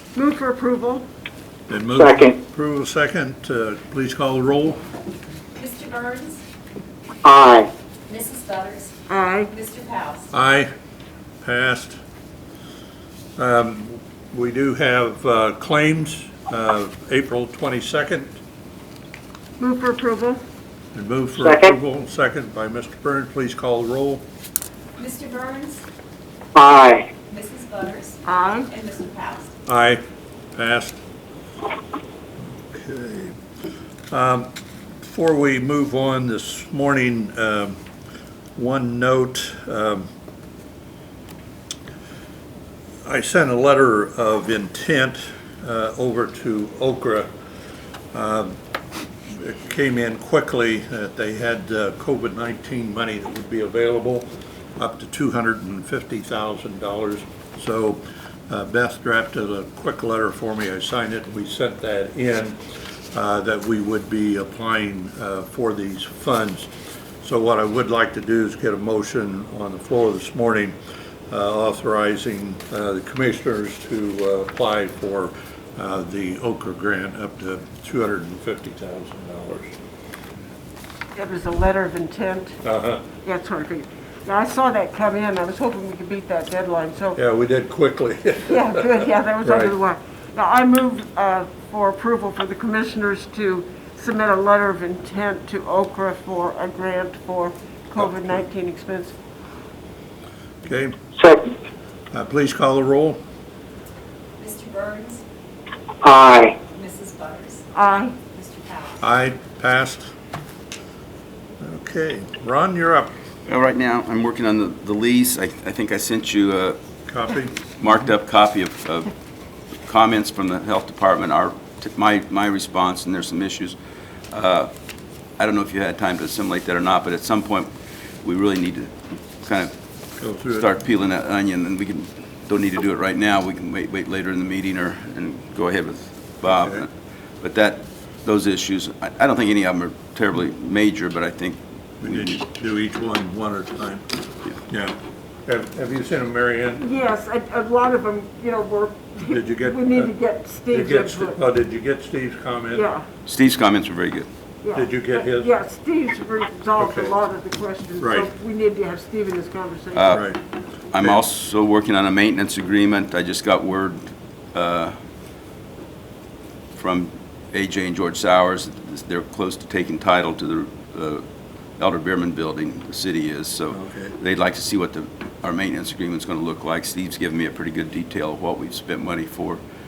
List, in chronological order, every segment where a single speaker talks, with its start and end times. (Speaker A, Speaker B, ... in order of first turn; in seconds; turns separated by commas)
Speaker A: 0.1-1.1, Speaker B: 1.7-4.8, Speaker C: 1.9-2.4, Speaker D: 5.6-6.4, Speaker C: 7.2-7.7, Speaker D: 8.1-8.9, Speaker A: 9.1-9.5, Speaker D: 9.5-10.3, Speaker B: 10.3-10.7, Speaker B: 11.4-11.9, Speaker B: 13.4-18.4, Speaker A: 19.6-20.4, Speaker B: 20.9-24.2, Speaker C: 21.4-21.7, Speaker D: 25.0-25.8, Speaker C: 26.5-27.1, Speaker D: 27.3-29.5, Speaker A: 28.2-28.7, Speaker B: 29.6-30.0, Speaker B: 30.5-31.0, Speaker B: 32.7-33.4, Speaker B: 34.1-34.5, Speaker B: 35.0-37.8, Speaker B: 38.5-40.1, Speaker B: 43.0-47.3, Speaker B: 48.1-48.5, Speaker B: 49.3-66.7, Speaker B: 67.2-70.8, Speaker B: 71.3-79.7, Speaker A: 81.2-82.6, Speaker B: 82.6-83.0, Speaker A: 83.2-87.2, Speaker B: 87.2-89.7, Speaker A: 88.5-99.1, Speaker B: 100.6-101.0, Speaker C: 101.2-101.5, Speaker B: 102.1-103.2, Speaker D: 104.4-105.2, Speaker C: 106.0-106.6, Speaker D: 106.7-107.6, Speaker A: 107.7-108.2, Speaker D: 108.2-109.0, Speaker B: 109.0-110.1, Speaker B: 111.6-113.1, Speaker E: 113.5-116.8, Speaker B: 117.1-117.6, Speaker E: 117.8-119.1, Speaker E: 119.8-123.8, Speaker E: 124.3-124.7, Speaker E: 125.4-127.7, Speaker E: 128.2-129.7, Speaker B: 130.2-130.7, Speaker E: 130.6-136.9, Speaker B: 136.4-136.8, Speaker E: 137.4-142.4, Speaker B: 142.0-144.0, Speaker B: 144.7-146.8, Speaker A: 146.8-151.4, Speaker B: 149.2-150.1, Speaker B: 150.7-152.9, Speaker A: 152.7-153.0, Speaker E: 153.2-154.3, Speaker A: 154.6-160.2, Speaker B: 154.7-155.5, Speaker B: 156.8-157.2, Speaker B: 158.0-158.3, Speaker E: 159.9-160.2, Speaker B: 160.1-160.4, Speaker E: 160.9-164.9, Speaker B: 160.9-161.2, Speaker E: 166.8-171.2, Speaker E: 171.8-179.6, Speaker B: 173.7-174.2